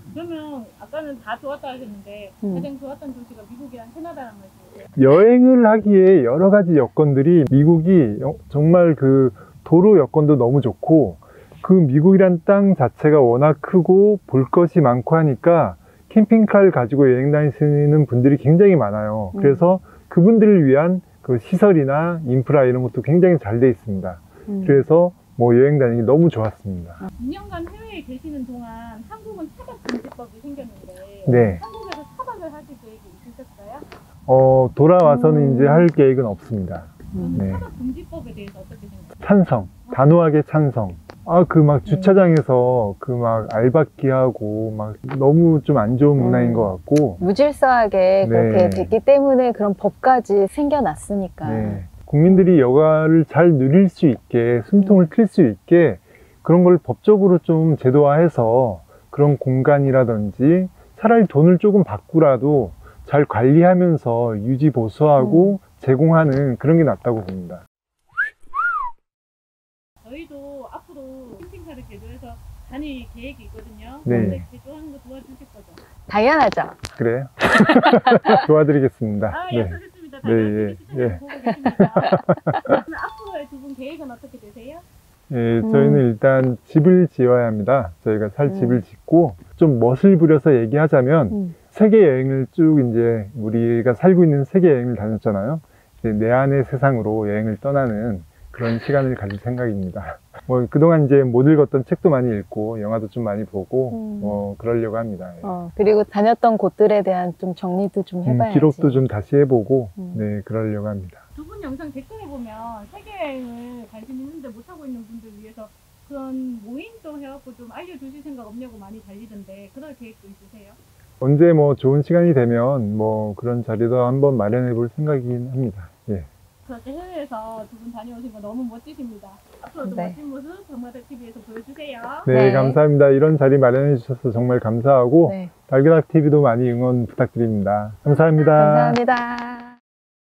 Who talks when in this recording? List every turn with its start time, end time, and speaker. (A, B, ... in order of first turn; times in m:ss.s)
0:00.1-0:04.9 A
0:02.4-0:02.7 B
0:05.0-0:27.0 C
0:19.3-0:19.7 B
0:24.5-0:24.8 B
0:27.2-0:33.8 A
0:31.2-0:31.6 C
0:34.3-0:37.6 C
0:35.0-0:35.9 B
0:37.1-0:37.4 B
0:37.1-0:39.2 A
0:39.2-0:47.2 C
0:41.8-0:42.2 B
0:46.2-0:52.5 B
0:48.2-0:48.9 C
0:51.4-1:07.6 C
0:54.8-0:55.1 B
1:05.2-1:05.6 B
1:10.0-1:15.8 A
1:14.0-1:14.4 B
1:14.0-1:14.4 C
1:16.1-1:16.8 B
1:16.9-1:21.2 C
1:17.9-1:18.4 B
1:19.3-1:24.8 A
1:21.8-1:22.8 C
1:22.0-1:22.3 B
1:25.3-1:45.6 C
1:25.6-1:26.0 B
1:28.4-1:28.8 B
1:43.9-1:44.4 B
1:45.4-1:49.0 B
1:48.2-1:51.2 C
1:50.0-1:50.2 B
1:51.3-2:00.8 A
2:01.2-2:06.3 C
2:06.6-2:12.3 A
2:09.8-2:10.2 B
2:12.2-2:19.0 C
2:12.3-2:12.8 B
2:15.2-2:15.5 B
2:18.5-2:19.8 B